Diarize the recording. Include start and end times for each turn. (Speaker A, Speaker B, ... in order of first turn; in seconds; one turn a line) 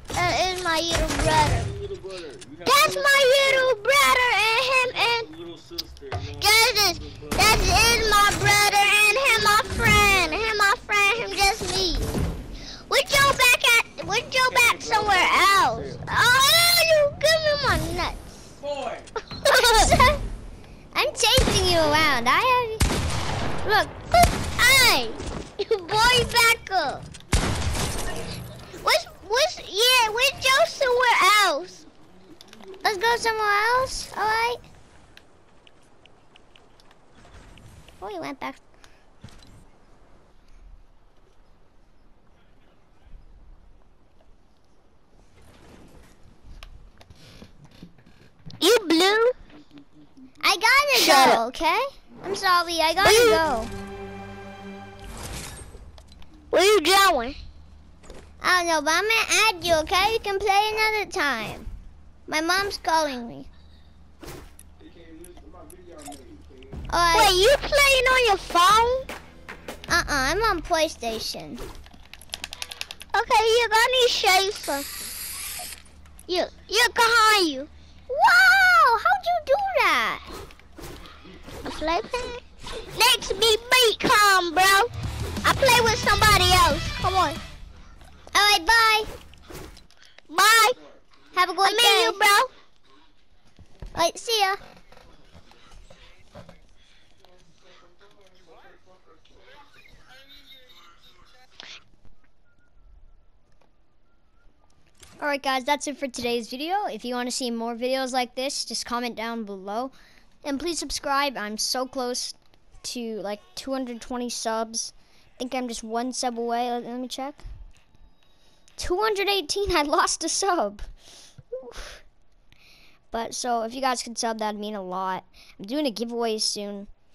Speaker A: 0.1-1.7
Speaker B: 1.9-2.5
Speaker A: 2.6-5.3
Speaker B: 5.3-6.2
Speaker A: 6.2-12.1
Speaker A: 12.9-18.6
Speaker B: 14.7-15.7
Speaker B: 18.8-19.0
Speaker A: 19.3-20.2
Speaker C: 19.5-19.9
Speaker C: 20.9-22.8
Speaker C: 23.6-23.9
Speaker A: 23.9-27.1
Speaker A: 28.8-31.8
Speaker C: 32.8-34.6
Speaker C: 38.0-38.6
Speaker A: 48.6-49.4
Speaker C: 50.4-53.7
Speaker A: 50.9-51.4
Speaker A: 53.0-53.4
Speaker A: 56.5-57.4
Speaker C: 58.4-61.7
Speaker C: 62.3-63.5
Speaker B: 64.9-66.4
Speaker C: 66.9-67.3
Speaker A: 67.1-69.1
Speaker C: 69.9-71.6
Speaker A: 73.1-74.9
Speaker A: 76.3-77.7
Speaker C: 78.1-80.2
Speaker A: 81.7-82.4
Speaker A: 82.9-84.9
Speaker A: 85.4-87.4
Speaker C: 88.3-89.1
Speaker A: 90.3-90.8
Speaker C: 91.3-92.2
Speaker A: 91.6-92.5
Speaker C: 94.0-94.6
Speaker C: 105.2-109.9
Speaker C: 110.4-117.4
Speaker C: 118.8-120.8
Speaker C: 121.5-122.0
Speaker C: 123.1-126.9